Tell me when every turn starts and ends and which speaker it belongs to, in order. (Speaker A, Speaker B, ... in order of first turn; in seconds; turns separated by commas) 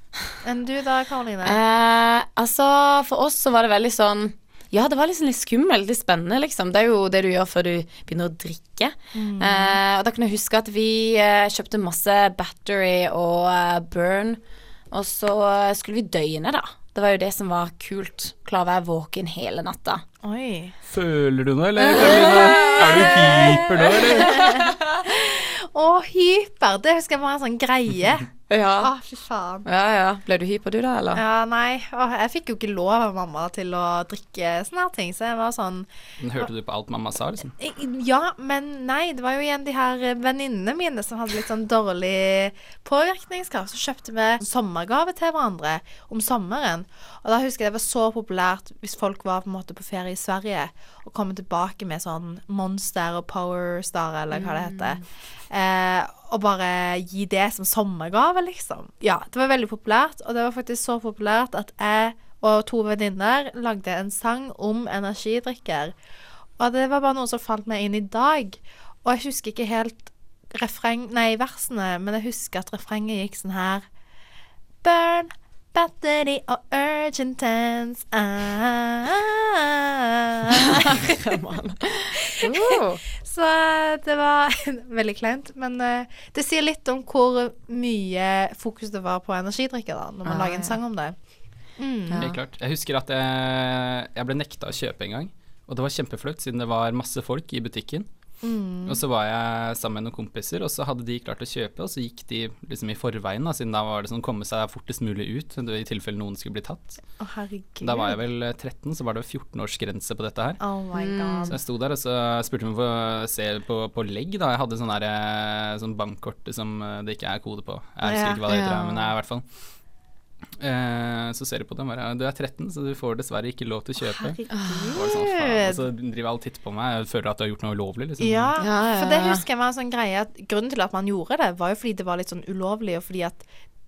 Speaker A: 0.4-1.6, Speaker B: 1.4-14.4, Speaker A: 9.1-9.8, Speaker B: 14.9-20.0, Speaker A: 20.2-20.7, Speaker C: 20.9-24.5, Speaker B: 21.8-23.6, Speaker A: 22.0-29.7, Speaker B: 24.2-24.7, Speaker B: 28.5-28.9, Speaker B: 29.6-31.2, Speaker A: 31.1-35.9, Speaker C: 36.2-37.5, Speaker A: 37.6-66.0, Speaker B: 54.3-55.0, Speaker A: 66.6-73.9, Speaker A: 74.8-81.1, Speaker B: 80.7-83.0, Speaker A: 82.3-91.2, Speaker B: 90.2-90.8, Speaker A: 91.8-92.2, Speaker B: 92.1-92.4, Speaker C: 92.2-98.1, Speaker A: 98.4-99.0, Speaker C: 98.8-107.0, Speaker A: 107.2-108.2, Speaker C: 107.8-110.6, Speaker A: 110.6-111.5, Speaker B: 110.9-111.5, Speaker C: 111.5-119.4, Speaker A: 118.0-118.4, Speaker B: 118.5-119.1, Speaker C: 120.6-124.4, Speaker A: 124.0-125.9, Speaker B: 124.5-125.0, Speaker C: 124.9-128.5, Speaker A: 128.2-133.4, Speaker B: 128.6-129.4